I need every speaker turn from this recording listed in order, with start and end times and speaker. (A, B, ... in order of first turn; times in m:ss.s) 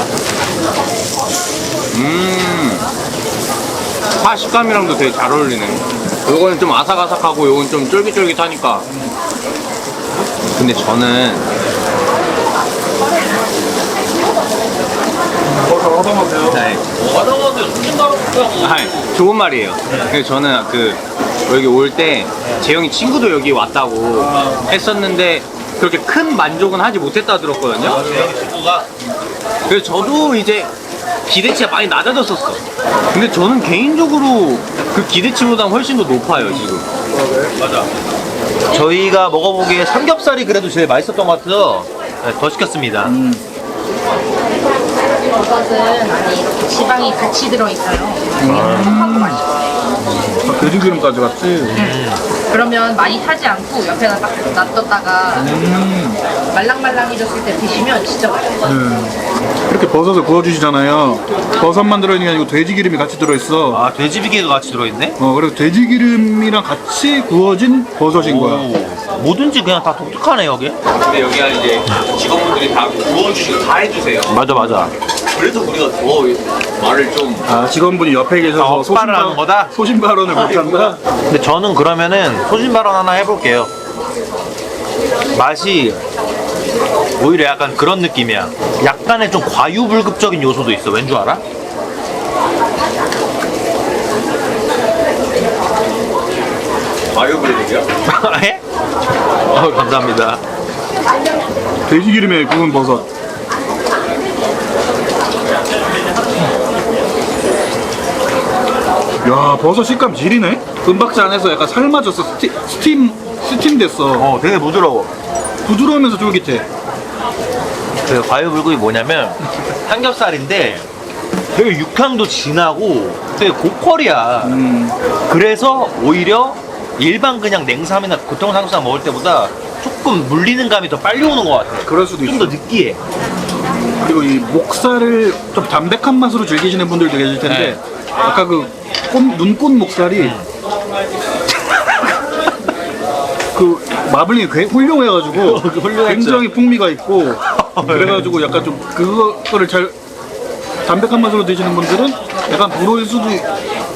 0:01.9-0:02.9 A
0:04.2-0:08.9 A
0:10.5-0:11.5 A
0:15.4-0:16.7 B
0:16.5-0:16.8 A
0:16.9-0:19.1 C
0:18.6-0:28.1 A
0:19.8-0:20.1 C
0:24.2-0:24.7 B
0:27.8-0:28.9 C
0:29.7-0:30.7 A
0:31.3-0:32.6 A
0:33.1-0:36.8 A
0:37.1-0:37.5 B
0:37.6-0:37.9 C
0:38.7-0:43.1 C
0:43.0-0:43.4 B
0:45.4-0:49.4 D
0:48.4-0:49.4 B
0:48.4-0:49.0 C
0:50.0-0:50.4 C
0:50.4-0:51.8 B
0:51.7-0:52.2 C
0:51.7-0:55.5 D
0:55.4-0:56.2 B
0:56.5-0:58.5 D
0:58.6-1:03.8 B
1:03.7-1:05.2 C
1:05.2-1:08.7 B
1:08.1-1:10.8 C
1:11.0-1:14.6 A
1:14.3-1:14.9 C
1:15.3-1:17.5 A
1:17.5-1:21.0 B
1:18.4-1:19.7 C
1:20.3-1:21.0 A
1:21.2-1:23.7 C
1:25.3-1:26.0 C
1:27.2-1:31.4 C
1:37.1-1:37.9 A
1:38.0-1:38.6 C
1:39.5-1:40.4 C
1:41.9-1:43.0 B
1:49.2-1:54.3 B
1:54.1-1:55.1 C
1:55.6-1:56.6 B
1:58.0-2:00.9 C
2:01.5-2:04.6 C
2:04.4-2:05.0 B
2:05.3-2:13.0 C
2:11.8-2:12.6 B
2:14.0-2:20.4 B
2:17.4-2:17.8 C
2:20.2-2:20.5 C
2:23.5-2:29.9 B
2:25.4-2:26.4 A
2:25.6-2:26.3 C
2:27.6-2:28.3 C
2:30.8-2:33.5 B